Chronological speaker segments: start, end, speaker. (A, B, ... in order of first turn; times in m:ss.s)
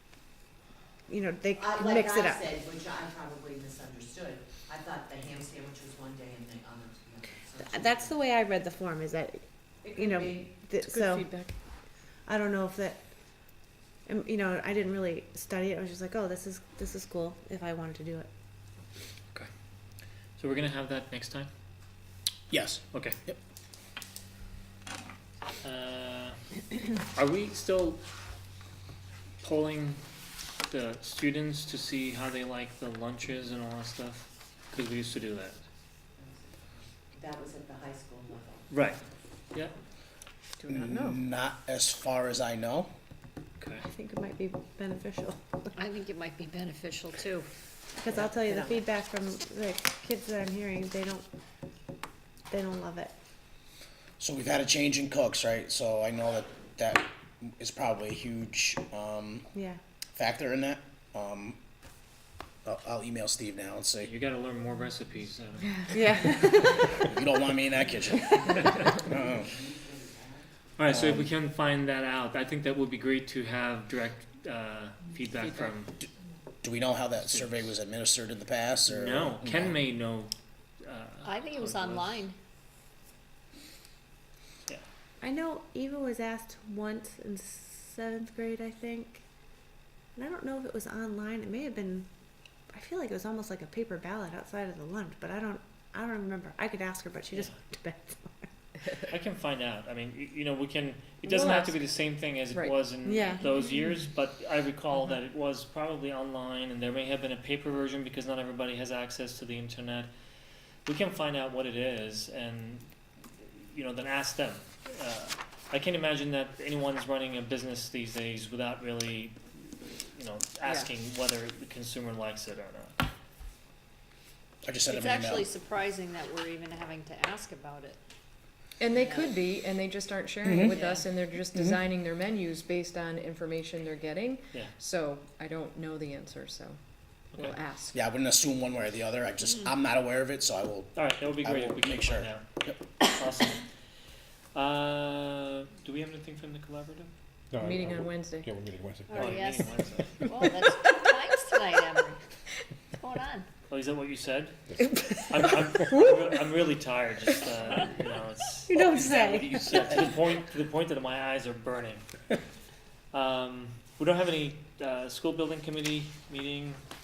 0:01.1-0:02.4 A
0:01.6-0:08.1 B
0:07.6-0:09.4 A
0:09.8-0:10.6 B
0:09.9-0:11.3 A
0:10.8-0:11.5 C
0:12.3-0:13.0 A
0:14.1-0:18.3 A
0:20.4-0:21.5 D
0:22.5-0:23.4 E
0:25.6-0:26.4 D
0:26.9-0:28.0 D
0:29.4-0:30.0 D
0:30.7-0:35.6 D
0:36.2-0:36.5 B
0:37.1-0:38.7 B
0:38.7-0:39.0 D
0:40.6-0:41.2 C
0:40.7-0:42.9 E
0:43.6-0:43.9 D
0:43.9-0:45.7 A
0:45.8-0:47.5 F
0:48.0-0:51.2 A
0:48.1-0:48.7 B
0:52.5-0:53.1 A
0:54.2-0:59.5 E
0:59.5-0:59.8 A
1:00.2-1:01.6 E
1:02.6-1:04.1 E
1:04.0-1:05.9 D
1:05.9-1:06.4 C
1:05.9-1:06.9 A
1:06.8-1:09.5 E
1:08.8-1:10.4 B
1:10.8-1:15.9 D
1:10.9-1:11.2 E
1:16.6-1:19.7 E
1:17.2-1:17.7 D
1:18.9-1:22.3 D
1:21.2-1:22.3 F
1:25.2-1:29.2 A
1:30.2-1:32.1 A
1:32.7-1:38.5 A
1:39.0-1:50.1 D
1:41.2-1:41.7 A
1:42.5-1:42.8 C
1:43.0-1:43.5 A
1:50.8-2:03.0 D
2:00.6-2:00.9 C
2:04.6-2:05.5 E
2:04.8-2:08.0 F
2:08.8-2:16.8 C
2:08.9-2:09.4 F
2:10.4-2:10.8 E
2:10.7-2:11.1 F
2:11.5-2:11.8 E
2:17.3-2:18.0 C
2:17.9-2:22.8 E
2:20.9-2:22.4 D
2:23.0-2:23.6 D
2:24.5-2:27.1 D
2:27.5-2:29.5 G
2:27.6-2:28.5 C
2:29.1-2:32.2 F
2:29.1-2:30.4 D
2:33.0-2:33.5 F
2:33.7-2:34.6 D
2:35.3-2:42.0 D
2:38.7-2:40.0 A
2:43.1-2:46.8 D